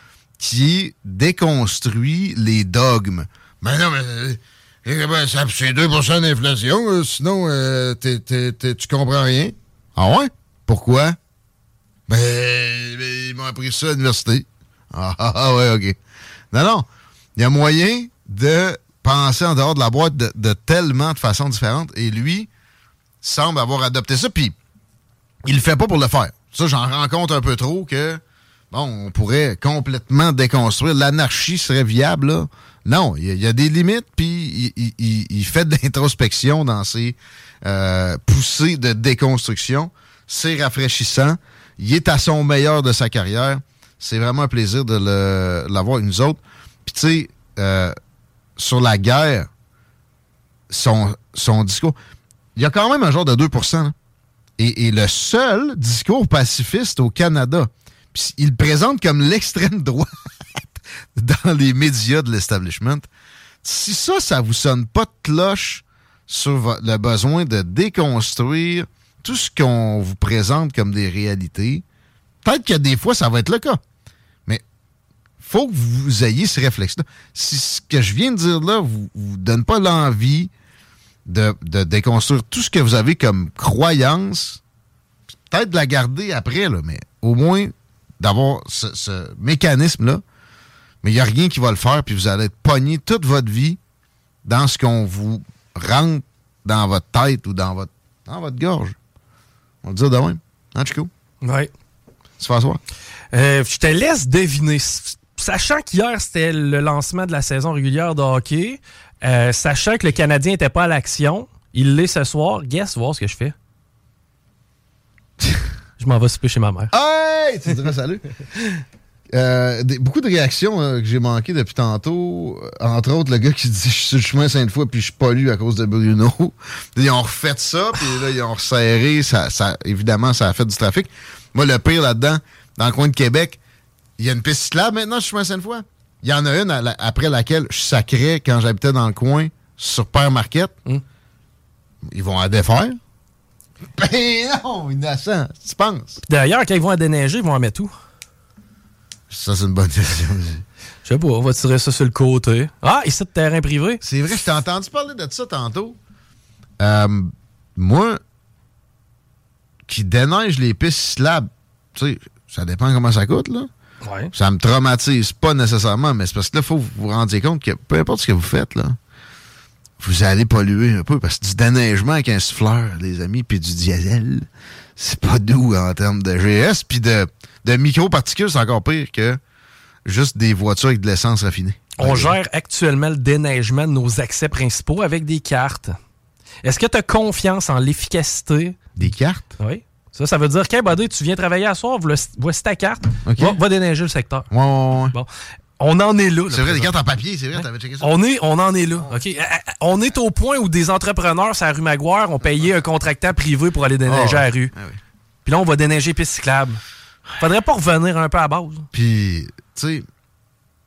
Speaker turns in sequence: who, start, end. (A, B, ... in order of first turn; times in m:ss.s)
0:00.4-0:11.2 A
0:12.1-0:16.0 A
0:16.5-0:22.5 A
0:23.2-0:24.6 A
0:25.4-0:48.0 A
0:48.6-0:49.5 A
0:50.7-0:52.0 A
0:52.6-0:54.0 A
0:54.6-1:03.1 A
1:03.6-1:11.8 A
1:12.4-1:13.8 A
1:15.4-1:20.5 A
1:21.3-1:24.6 A
1:25.5-1:30.2 A
1:31.0-1:33.8 A
1:34.4-1:39.0 A
1:39.8-1:41.1 A
1:41.4-1:41.7 B
1:42.4-1:42.8 A
1:43.3-1:53.6 B
1:56.0-1:56.9 B
1:56.9-1:58.3 A
1:59.3-2:13.6 A
2:14.2-2:20.7 A
2:22.0-2:23.0 A
2:24.0-2:26.2 A
2:26.3-2:27.9 B
2:29.3-2:30.6 A
2:31.0-2:34.0 B
2:34.0-2:36.0 A
2:36.8-2:38.2 A
2:39.9-2:43.7 A
2:44.0-2:44.3 B
2:44.3-2:49.0 A
2:50.0-2:59.4 A
3:00.0-3:02.4 A
3:02.0-3:06.0 B
3:06.6-3:08.8 B
3:09.0-3:09.6 A
3:09.6-3:14.5 B
3:13.2-3:13.6 A
3:14.5-3:15.2 A
3:15.1-3:16.9 B
3:16.5-3:18.1 A
3:17.6-3:24.7 B
3:24.1-3:25.0 A
3:25.4-3:26.8 B
3:27.4-3:28.9 B
3:28.9-3:30.1 A